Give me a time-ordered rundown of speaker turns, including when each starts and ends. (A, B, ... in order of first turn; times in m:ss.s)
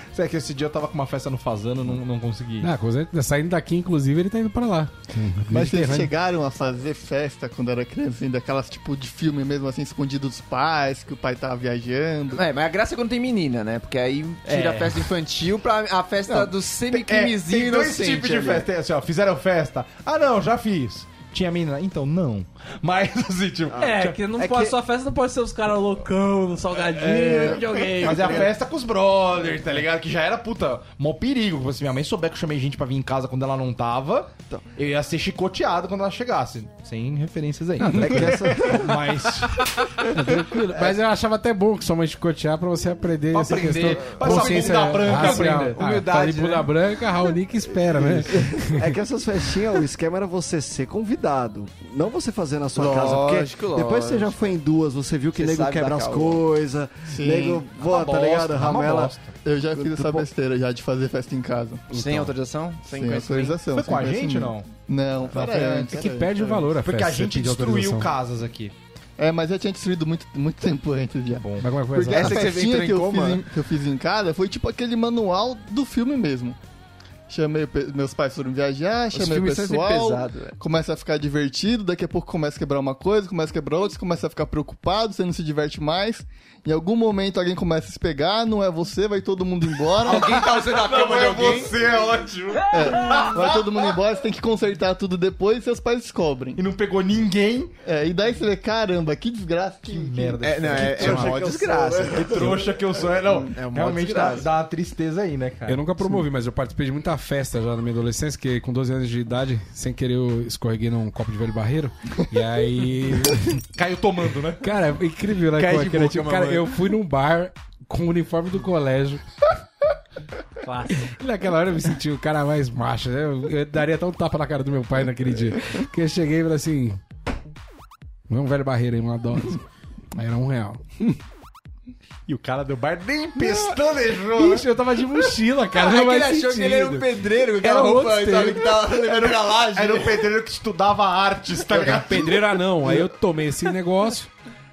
0:00.1-0:02.7 A
0:02.6-0:06.1 B
0:05.5-0:12.4 C
0:12.3-0:18.7 D
0:14.5-0:15.1 A
0:16.3-0:24.7 A
0:23.8-0:28.5 E
0:26.8-0:39.9 A
0:37.8-0:38.4 B
0:37.9-0:39.0 F
0:40.1-0:48.9 B
0:43.3-0:45.8 A
0:43.5-0:46.7 D
0:47.8-0:59.2 F
0:52.8-0:54.5 D
0:55.4-0:56.4 D
0:57.1-0:57.6 C
0:57.8-0:59.4 A
0:59.4-1:01.8 C
0:59.8-1:00.3 F
1:01.9-1:03.6 D
1:02.9-1:06.7 C
1:03.7-1:04.7 A
1:05.3-1:05.8 A
1:05.6-1:08.1 B
1:06.8-1:08.7 A
1:09.2-1:16.6 C
1:11.4-1:11.7 A
1:11.6-1:12.5 B
1:12.0-1:13.4 D
1:17.3-1:30.2 C
1:19.1-1:20.6 D
1:30.0-1:31.8 D
1:30.0-1:34.0 A
1:32.7-1:36.6 C
1:36.6-1:37.7 A
1:37.8-1:40.5 C
1:39.9-1:41.5 A
1:40.4-1:42.7 D
1:40.7-1:42.6 F
1:42.1-1:45.8 A
1:43.4-1:44.5 D
1:45.7-1:53.6 B
1:53.8-1:54.7 A
1:54.6-1:59.2 B
1:55.6-1:56.7 D
2:00.6-2:01.1 E
2:01.0-2:07.0 B
2:08.3-2:09.6 B
2:10.1-2:10.8 B
2:12.3-2:14.7 A
2:13.4-2:13.8 B
2:14.3-2:17.1 B
2:15.7-2:20.3 D
2:17.6-2:18.8 B
2:19.1-2:22.9 A
2:21.7-2:24.3 B